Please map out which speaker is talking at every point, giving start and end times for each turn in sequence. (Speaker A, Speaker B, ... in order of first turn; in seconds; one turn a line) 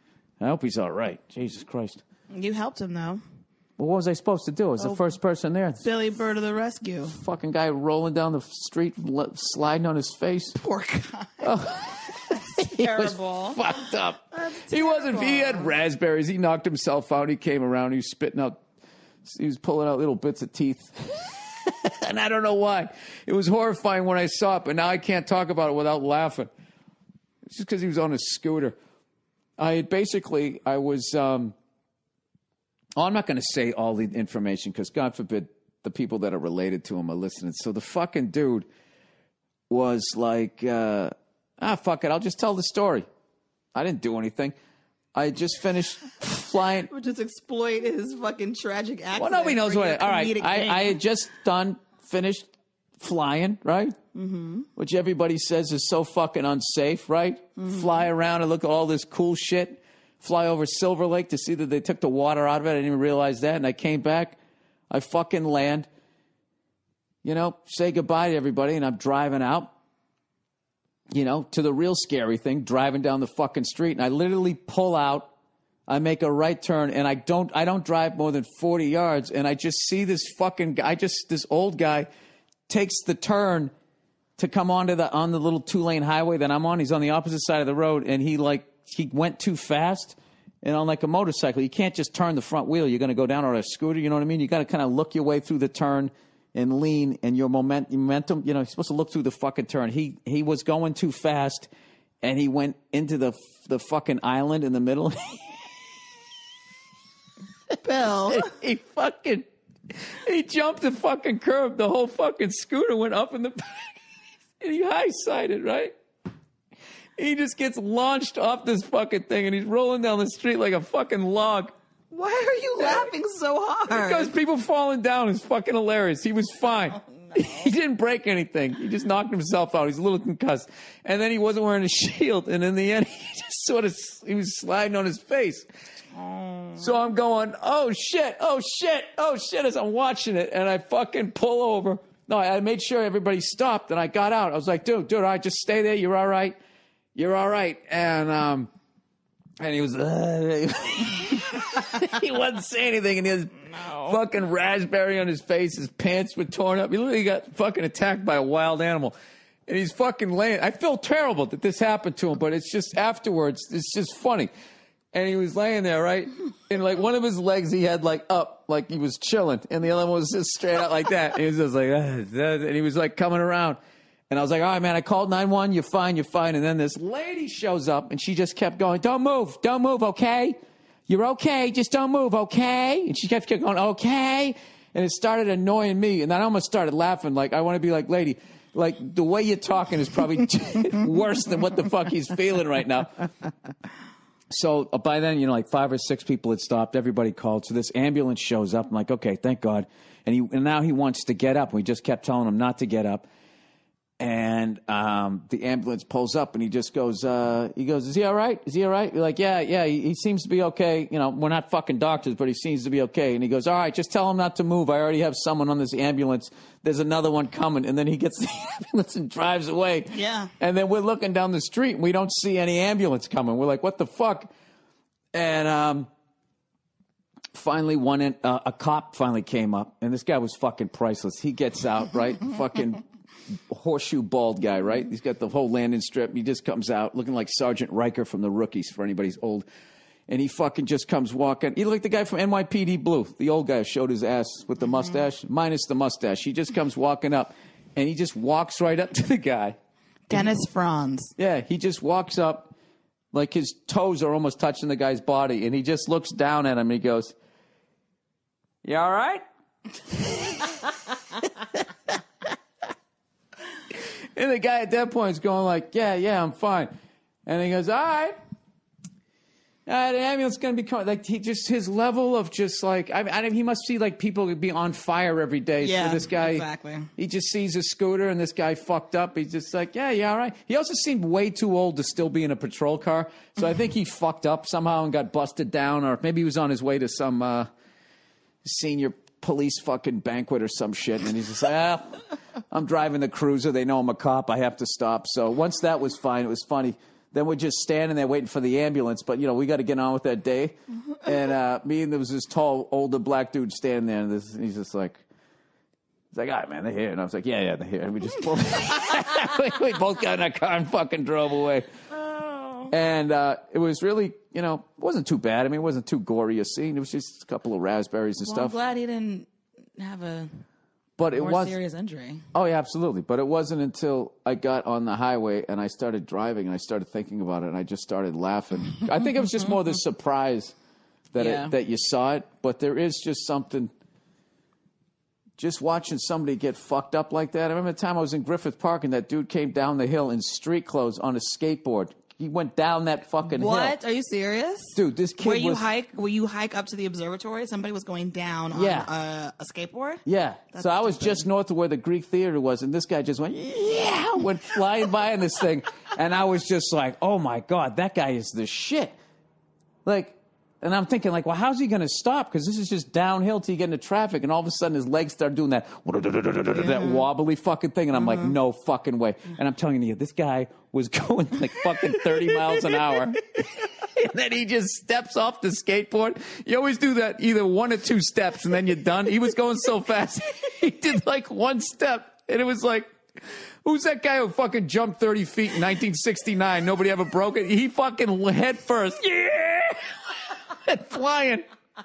Speaker A: 0.4-2.0
Speaker B: 2.3-3.2
Speaker A: 3.8-5.8
Speaker B: 5.8-7.1
Speaker A: 7.1-10.6
Speaker B: 10.6-11.5
Speaker A: 11.4-18.6
Speaker B: 12.3-13.6
Speaker B: 14.3-15.7
Speaker A: 19.2-26.5
Speaker A: 27.4-28.8
Speaker A: 29.6-31.6
Speaker A: 33.0-38.7
Speaker A: 39.7-43.1
Speaker A: 43.7-44.5
Speaker A: 45.1-46.9
Speaker B: 46.9-51.0
Speaker A: 49.2-54.0
Speaker B: 54.1-54.7
Speaker A: 54.8-64.4
Speaker B: 57.6-58.0
Speaker A: 64.9-65.9
Speaker A: 67.2-69.7
Speaker A: 71.1-75.3
Speaker A: 75.9-82.1
Speaker A: 82.7-83.7
Speaker A: 84.4-101.7
Speaker A: 102.2-105.6
Speaker B: 107.8-108.5
Speaker A: 108.3-109.5
Speaker A: 110.0-114.0
Speaker A: 114.6-115.9
Speaker A: 117.2-121.7
Speaker B: 122.1-124.3
Speaker A: 123.9-135.7
Speaker B: 136.2-136.8
Speaker A: 136.8-146.6
Speaker A: 147.2-148.7
Speaker A: 149.6-159.2
Speaker A: 159.7-164.5
Speaker A: 165.1-180.6
Speaker A: 181.1-193.2
Speaker A: 194.5-203.2
Speaker A: 204.2-224.5
Speaker B: 220.1-220.5
Speaker A: 225.3-226.1
Speaker A: 227.5-233.0
Speaker A: 233.6-239.7
Speaker A: 240.3-249.8
Speaker B: 250.3-251.3
Speaker A: 251.4-252.7
Speaker A: 253.3-257.4
Speaker A: 258.9-259.4
Speaker A: 260.1-260.9
Speaker A: 264.4-266.9
Speaker A: 267.4-268.4
Speaker A: 269.9-276.6
Speaker B: 275.8-277.1
Speaker A: 277.2-287.7
Speaker A: 288.6-305.2
Speaker A: 306.3-311.9
Speaker B: 312.3-312.9
Speaker A: 312.9-318.8
Speaker B: 318.4-320.5
Speaker A: 321.2-321.8
Speaker B: 321.4-322.4
Speaker A: 322.5-330.7
Speaker A: 331.3-333.9
Speaker B: 331.4-331.7
Speaker A: 335.6-343.9
Speaker B: 343.4-351.4
Speaker A: 344.9-345.9
Speaker A: 348.7-349.1
Speaker A: 350.2-359.2
Speaker A: 360.1-383.1
Speaker B: 366.9-367.2
Speaker A: 383.9-391.6